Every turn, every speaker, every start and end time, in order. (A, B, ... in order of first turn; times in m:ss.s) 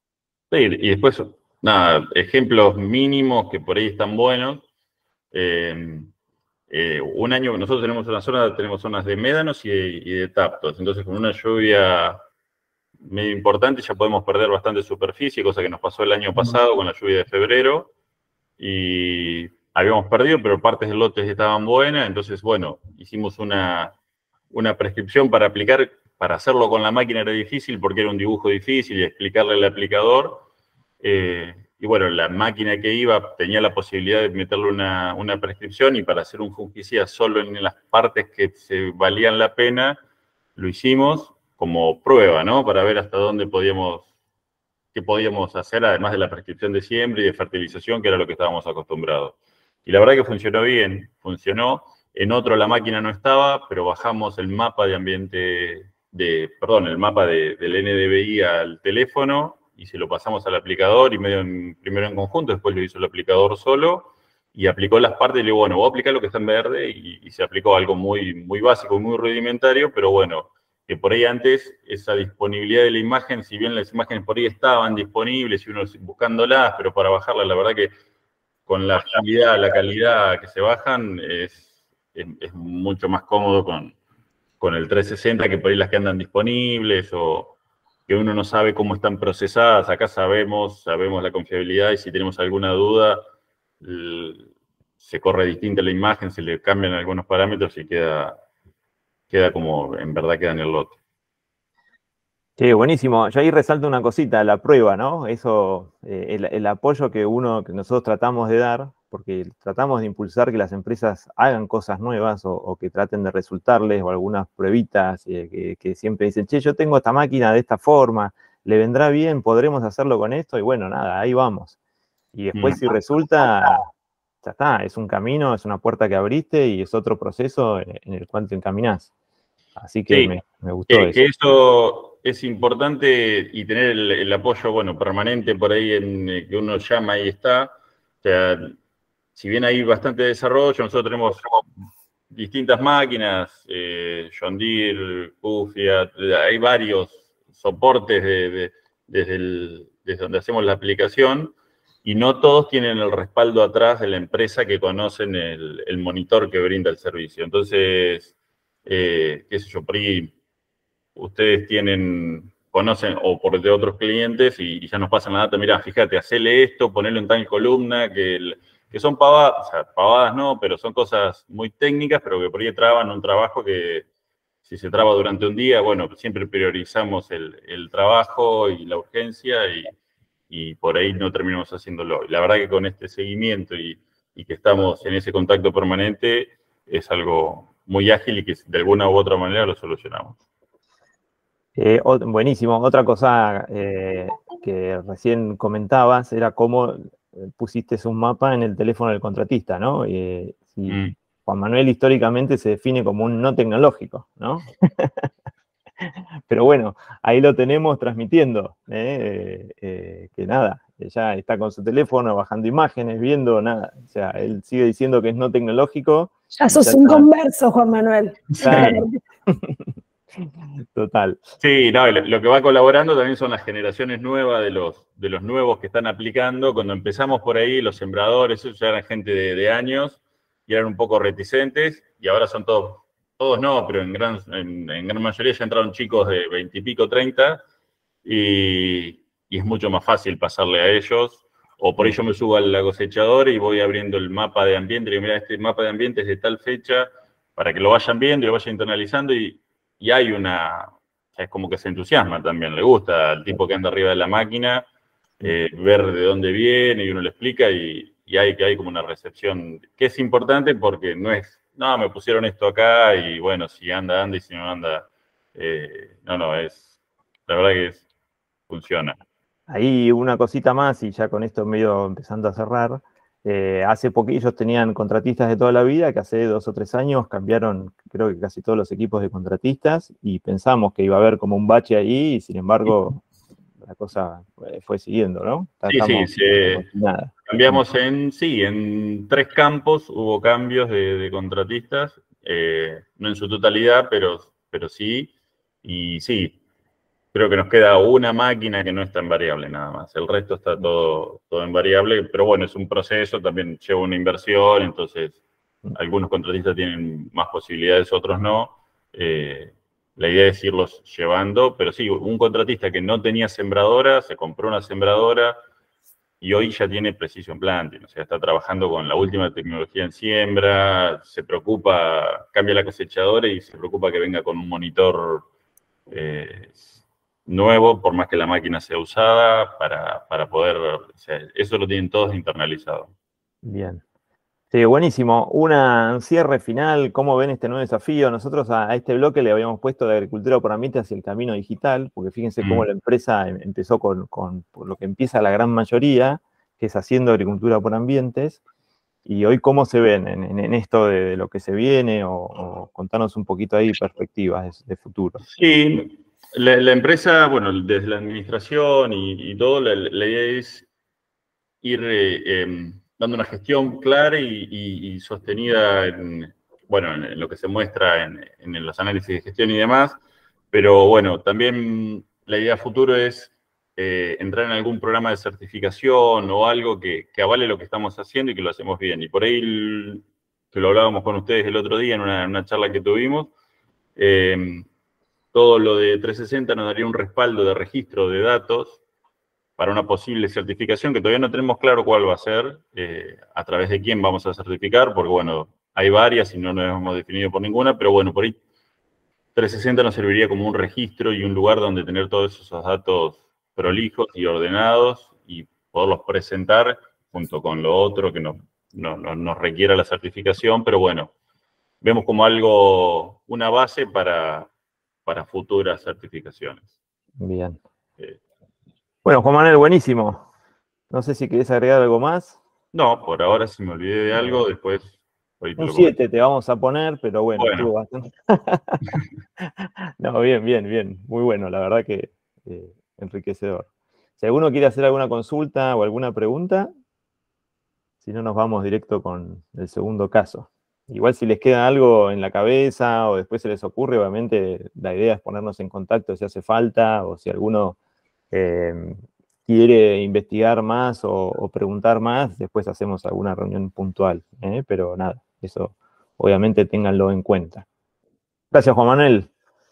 0:00.5-0:04.6 A
0:05.3-0:06.1 A
0:06.7-0:12.2 A
0:13.0-0:17.9 A
0:18.6-0:24.0 A
0:24.5-0:30.5 A
0:31.0-0:40.0 A
0:40.6-0:44.1 A
0:44.9-1:17.9 A
1:18.7-1:24.0 A
1:24.6-1:27.6 A
1:28.1-1:33.2 A
1:33.8-1:34.5 A
1:35.0-1:38.4 A
1:39.3-1:41.0 A
1:42.6-2:01.8 B
2:02.3-2:03.9 B
2:02.6-2:02.8 A
2:04.4-2:09.1 B
2:09.8-2:11.2 B
2:10.9-2:18.8 A
2:19.4-2:21.6 A
2:22.3-2:38.3 A
2:38.8-2:40.3 A
2:41.2-2:54.1 A
2:54.6-2:59.9 A
3:00.5-3:10.4 A
3:11.8-3:25.3 B
3:20.9-3:21.1 A
3:26.0-3:37.3 B
3:36.5-3:39.2 C
3:38.6-3:39.0 A
3:38.6-3:39.8 B
3:40.9-3:41.4 B
3:41.6-3:57.6 A
3:58.2-4:14.9 A
4:15.4-4:26.9 A
4:27.5-4:28.0 A
4:28.7-4:29.2 A
4:29.7-4:43.2 B
4:43.8-4:47.8 B
4:45.9-4:46.9 A
4:47.5-4:55.3 A
4:55.8-4:56.6 A
4:57.3-5:05.4 A
5:06.0-5:15.6 A
5:16.4-5:25.5 A
5:26.1-5:26.9 A
5:27.5-5:33.1 A
5:33.6-5:34.0 B
5:34.7-5:48.6 B
5:42.6-5:42.9 A
5:49.3-5:55.4 B
5:55.5-6:00.9 A
6:01.8-6:10.2 A
6:10.7-6:23.5 A
6:24.2-6:24.9 A
6:25.5-6:29.0 A
6:29.8-6:38.6 A
6:39.6-6:51.3 A
6:52.0-6:54.7 A
6:55.3-6:56.9 A
6:57.4-6:57.8 B
6:59.2-7:00.5 B
7:01.1-7:02.6 B
7:02.9-7:06.2 A
7:04.4-7:04.6 B
7:05.8-7:09.0 B
7:07.6-7:07.9 A
7:09.6-7:13.9 B
7:14.4-7:16.9 B
7:18.2-7:28.0 B
7:28.5-7:37.9 B
7:38.7-7:39.5 B